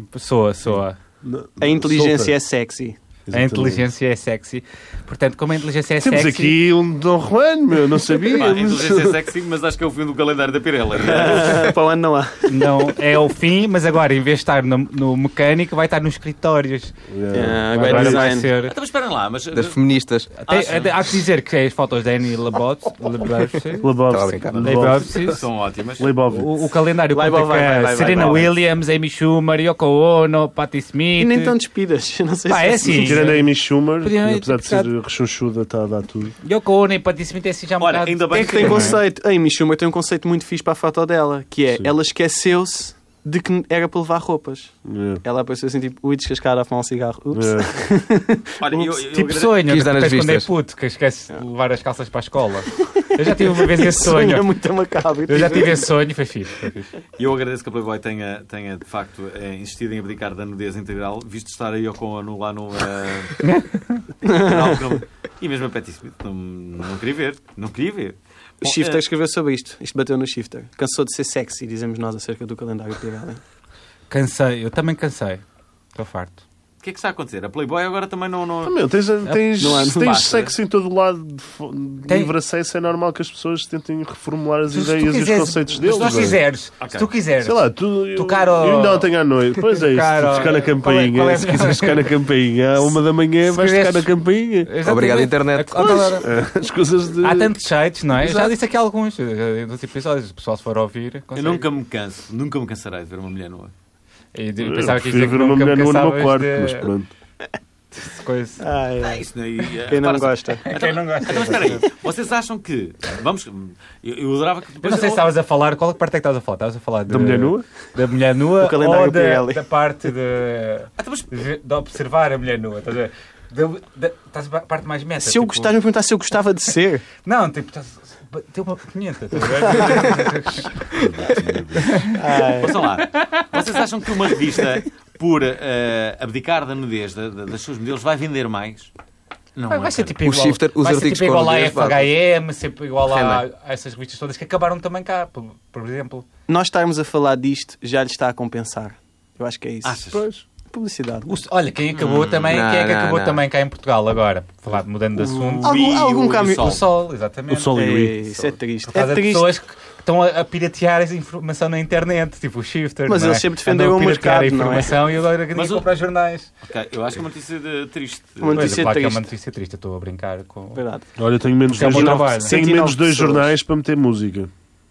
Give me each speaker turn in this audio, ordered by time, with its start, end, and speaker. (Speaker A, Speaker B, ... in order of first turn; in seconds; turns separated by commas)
Speaker A: 0.1-1.0, Speaker B: 1.2-2.3, Speaker C: 1.6-3.0, Speaker B: 3.3-3.9, Speaker A: 3.3-6.6, Speaker B: 6.0-9.2, Speaker D: 8.3-11.7, Speaker C: 11.0-12.7, Speaker A: 12.4-18.7, Speaker B: 17.1-18.3, Speaker C: 17.3-18.5, Speaker D: 18.5-19.8, Speaker E: 19.5-20.3, Speaker A: 20.4-23.9, Speaker D: 20.5-21.0, Speaker B: 23.8-25.4, Speaker E: 24.1-24.9, Speaker A: 24.6-25.4, Speaker D: 25.2-26.1, Speaker B: 26.0-26.6, Speaker A: 26.3-31.5, Speaker C: 27.1-28.6, Speaker D: 28.1-28.5, Speaker C: 31.2-33.4, Speaker A: 32.5-34.9, Speaker B: 32.9-36.3, Speaker A: 36.4-39.0, Speaker D: 37.8-39.0, Speaker C: 38.3-49.0, Speaker B: 44.8-45.2, Speaker B: 47.3-47.7, Speaker D: 48.6-49.7, Speaker A: 49.1-54.5, Speaker E: 49.6-50.5, Speaker C: 53.3-55.9, Speaker A: 55.3-56.9, Speaker D: 57.2-63.4, Speaker A: 63.4-64.0, Speaker C: 64.2-64.8, Speaker D: 64.2-69.0, Speaker C: 68.6-73.4, Speaker A: 74.1-75.4, Speaker A: 75.9-76.4, Speaker D: 76.8-78.7, Speaker B: 78.6-86.4, Speaker C: 79.6-80.4, Speaker D: 80.0-80.5, Speaker A: 82.1-82.3, Speaker A: 84.7-89.1, Speaker D: 85.9-87.1, Speaker B: 87.4-94.7, Speaker A: 89.6-92.1, Speaker A: 92.8-96.3, Speaker E: 94.8-96.1, Speaker B: 95.8-97.6, Speaker A: 97.2-101.7, Speaker B: 98.1-98.5, Speaker D: 101.3-103.7, Speaker A: 104.3-106.9, Speaker B: 104.6-107.1, Speaker A: 108.0-108.6, Speaker C: 108.6-109.2, Speaker D: 109.0-115.3, Speaker C: 109.8-110.6, Speaker A: 110.6-111.8, Speaker A: 114.8-125.7, Speaker B: 117.1-117.6, Speaker C: 118.6-119.6, Speaker D: 121.0-121.3, Speaker C: 125.2-127.0, Speaker A: 127.2-131.0, Speaker C: 129.7-130.1, Speaker D: 130.9-138.9, Speaker A: 131.8-132.2, Speaker C: 132.1-132.8, Speaker A: 133.1-133.4, Speaker D: 139.5-140.2, Speaker A: 139.7-146.2, Speaker E: 140.2-142.2, Speaker E: 143.1-143.4, Speaker C: 146.5-150.0, Speaker D: 149.8-150.2, Speaker B: 150.1-150.4, Speaker C: 150.7-151.4, Speaker A: 151.3-155.8, Speaker E: 152.0-153.4, Speaker D: 155.2-156.8, Speaker C: 155.6-156.8, Speaker A: 156.6-157.7, Speaker B: 157.5-158.2, Speaker C: 157.7-159.5, Speaker A: 158.9-166.5, Speaker C: 163.1-165.0, Speaker D: 165.5-165.9, Speaker D: 166.6-169.0, Speaker C: 168.4-169.2, Speaker A: 168.5-170.8, Speaker C: 170.7-171.1, Speaker B: 171.2-174.5, Speaker A: 171.7-172.6, Speaker C: 171.7-173.5